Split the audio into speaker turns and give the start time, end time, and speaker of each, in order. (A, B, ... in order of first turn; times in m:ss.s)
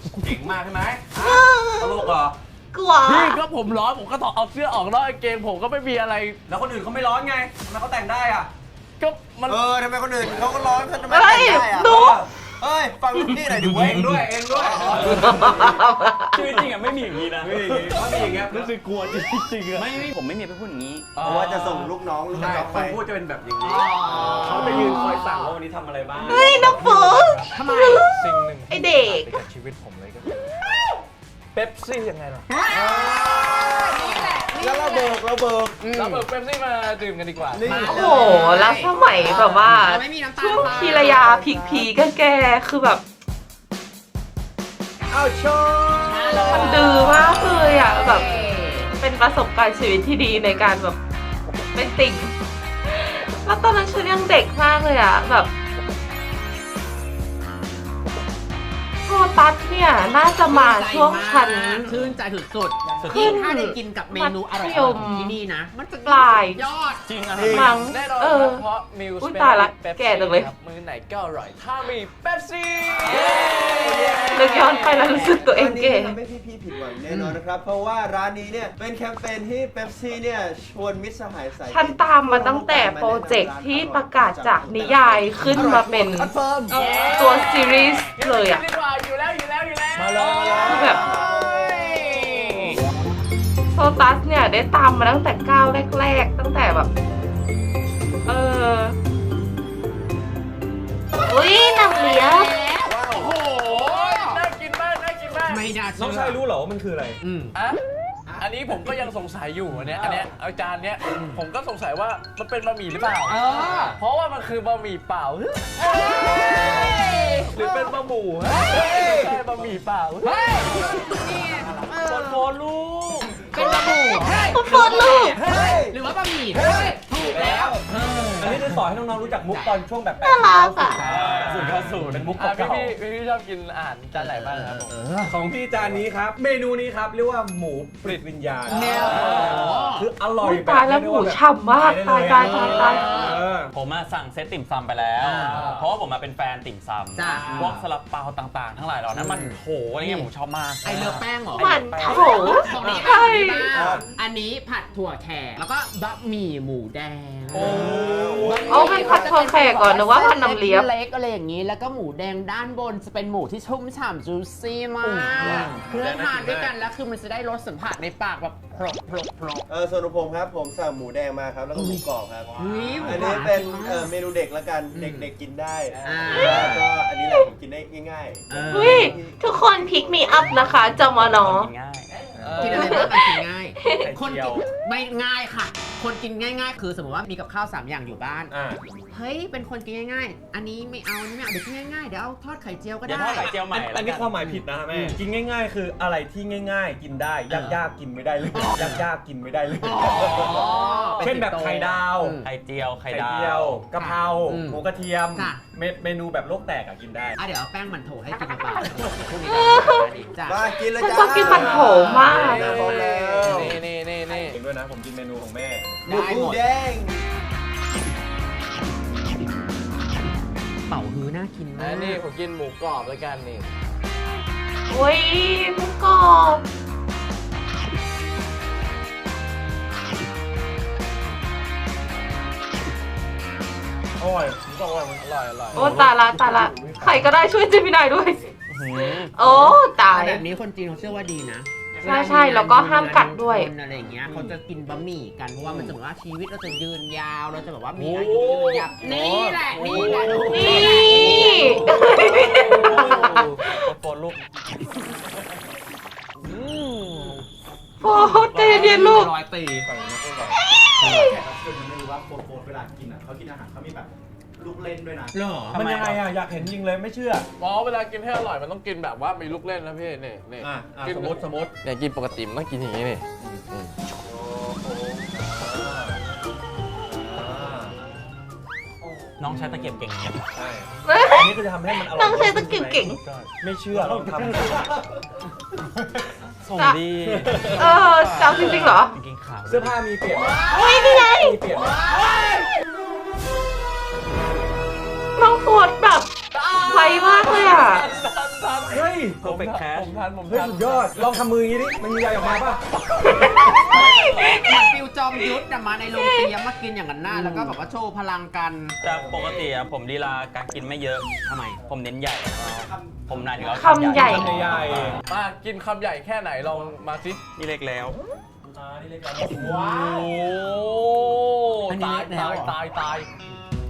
0:00.2-0:02.3 A
0:01.1-0:02.1 B
0:02.7-0:03.4 B
0:03.0-0:06.4 C
0:06.5-0:08.5 A
0:09.0-0:09.6 C
0:09.4-0:15.8 D
0:11.1-0:12.2 B
0:11.7-0:12.3 A
0:13.6-0:15.8 A
0:15.3-0:16.6 B
0:16.3-0:17.9 E
0:17.4-0:18.7 A
0:18.0-0:20.0 C
0:19.7-0:21.1 E
0:21.2-0:21.9 C
0:21.2-0:23.0 D
0:22.3-0:27.3 A
0:23.6-0:25.0 F
0:24.1-0:25.6 C
0:26.2-0:28.0 B
0:26.4-0:30.5 C
0:27.5-0:28.0 F
0:28.7-0:29.4 B
0:31.5-0:32.5 C
0:32.5-0:35.2 F
0:32.7-0:35.8 D
0:35.8-0:36.2 F
0:35.9-0:37.8 C
0:37.5-0:38.5 D
0:37.6-0:41.2 F
0:37.8-0:43.0 B
0:40.6-0:41.9 D
0:45.1-0:47.5 D
0:46.0-0:48.9 F
0:46.4-0:48.4 B
0:49.0-0:51.0 B
0:51.7-0:52.3 B
0:52.8-0:55.5 B
0:59.1-1:01.9 B
1:00.5-1:07.0 F
1:01.6-1:01.9 E
1:03.0-1:03.4 E
1:03.0-1:05.4 B
1:06.0-1:06.6 B
1:07.0-1:07.7 E
1:07.3-1:07.8 D
1:07.5-1:08.6 B
1:07.5-1:15.4 C
1:09.2-1:10.5 B
1:13.8-1:14.6 D
1:14.3-1:16.2 B
1:15.2-1:26.8 D
1:17.1-1:17.4 F
1:21.7-1:26.3 B
1:26.7-1:27.2 A
1:26.7-1:31.0 C
1:26.8-1:27.5 F
1:27.1-1:28.6 B
1:29.9-1:31.1 A
1:30.6-1:31.1 B
1:30.8-1:31.4 D
1:30.9-1:32.7 F
1:33.7-1:36.9 B
1:38.2-1:38.9 B
1:41.2-1:42.7 B
1:42.0-1:44.4 F
1:43.7-1:45.7 C
1:45.5-1:46.4 F
1:45.9-1:47.2 A
1:47.2-1:47.5 F
1:47.5-1:47.8 C
1:48.4-1:56.9 C
1:51.1-1:51.4 F
1:53.2-1:54.0 F
1:55.8-1:57.5 F
1:57.5-2:01.0 C
1:58.6-1:59.4 A
2:00.2-2:02.4 F
2:00.6-2:02.1 G
2:01.9-2:03.4 E
2:03.3-2:03.8 G
2:03.5-2:09.8 F
2:03.6-2:05.4 B
2:05.4-2:06.0 A
2:06.5-2:13.0 A
2:10.2-2:11.0 B
2:10.9-2:11.4 F
2:11.0-2:12.3 E
2:12.3-2:14.9 C
2:14.1-2:15.3 F
2:15.2-2:23.7 A
2:18.0-2:19.8 C
2:18.7-2:20.1 F
2:20.4-2:23.4 B
2:22.2-2:23.4 F
2:23.7-2:32.7 E
2:25.2-2:25.8 F
2:25.5-2:25.9 C
2:27.1-2:27.7 F
2:27.4-2:27.8 A
2:29.1-2:30.3 F
2:30.8-2:37.9 F
2:31.6-2:33.8 B
2:32.8-2:33.1 A
2:33.7-2:34.1 D
2:33.8-2:34.0 A
2:37.5-2:39.1 A
2:37.5-2:39.4 D
2:38.4-2:49.6 F
2:38.6-2:40.9 B
2:45.3-2:46.7 A
2:49.7-2:59.4 D
2:51.7-2:52.0 F
2:52.6-2:54.1 F
2:54.9-2:55.3 F
2:56.0-2:56.8 F
2:56.3-2:57.5 B
2:56.3-2:56.8 A
2:58.5-2:59.2 F
2:58.7-3:01.7 B
3:00.4-3:02.1 E
3:02.4-3:03.0 A
3:02.4-3:03.1 C
3:02.6-3:08.5 F
3:02.7-3:04.1 B
3:03.9-3:04.6 A
3:08.5-3:08.8 A
3:09.1-3:13.5 F
3:13.0-3:14.3 E
3:13.4-3:22.4 A
3:14.4-3:15.2 F
3:17.5-3:17.8 F
3:18.5-3:19.0 F
3:19.8-3:22.5 F
3:20.6-3:21.3 C
3:22.4-3:23.8 E
3:23.1-3:27.4 A
3:23.9-3:24.8 F
3:25.3-3:25.6 F
3:27.4-3:30.6 F
3:29.4-3:30.1 B
3:30.4-3:33.8 D
3:30.8-3:32.9 B
3:31.4-3:34.6 C
3:32.4-3:33.8 A
3:34.3-3:36.0 A
3:36.0-3:36.6 F
3:36.0-3:37.2 D
3:40.9-3:42.2 F
3:41.8-3:43.7 C
3:44.9-3:46.6 B
3:54.2-3:57.2 A
3:55.2-3:56.0 C
3:55.7-4:00.4 B
3:58.7-3:59.4 E
3:59.4-4:12.0 F
4:02.0-4:03.7 B
4:07.9-4:13.5 C
4:10.0-4:10.5 E
4:10.2-4:10.6 A
4:10.5-4:13.9 B
4:12.6-4:14.4 E
4:16.4-4:17.4 C
4:18.0-4:19.3 B
4:18.0-4:19.9 F
4:19.8-4:20.6 A
4:20.5-4:21.4 B
4:21.0-4:25.4 G
4:25.3-4:25.8 F
4:25.7-4:26.3 E
4:25.7-4:27.5 A
4:27.6-4:33.9 C
4:30.6-4:31.7 A
4:35.6-4:36.2 A
4:37.1-4:37.9 A
4:39.4-4:40.5 E
4:39.4-4:40.0 A
4:40.5-4:45.0 A
4:41.0-4:43.2 B
4:46.6-4:50.0 E
4:47.2-4:47.9 A
4:47.8-4:49.2 B
4:48.6-4:48.9 A
4:49.6-4:51.9 A
4:50.3-4:50.8 G
4:50.6-4:51.8 B
4:51.7-4:52.7 C
4:51.8-4:52.2 G
4:55.4-4:58.1 B
4:56.5-5:01.2 C
4:58.9-4:59.6 A
4:59.4-5:00.2 E
5:00.4-5:02.8 A
5:03.6-5:04.1 A
5:03.8-5:04.8 E
5:04.4-5:09.0 F
5:06.1-5:06.5 B
5:07.4-5:07.8 E
5:09.0-5:15.2 E
5:12.6-5:14.2 G
5:13.6-5:14.6 B
5:14.1-5:15.2 A
5:15.2-5:17.4 C
5:17.6-5:18.2 E
5:18.6-5:19.9 A
5:19.6-5:20.3 G
5:19.7-5:23.3 C
5:21.9-5:22.7 F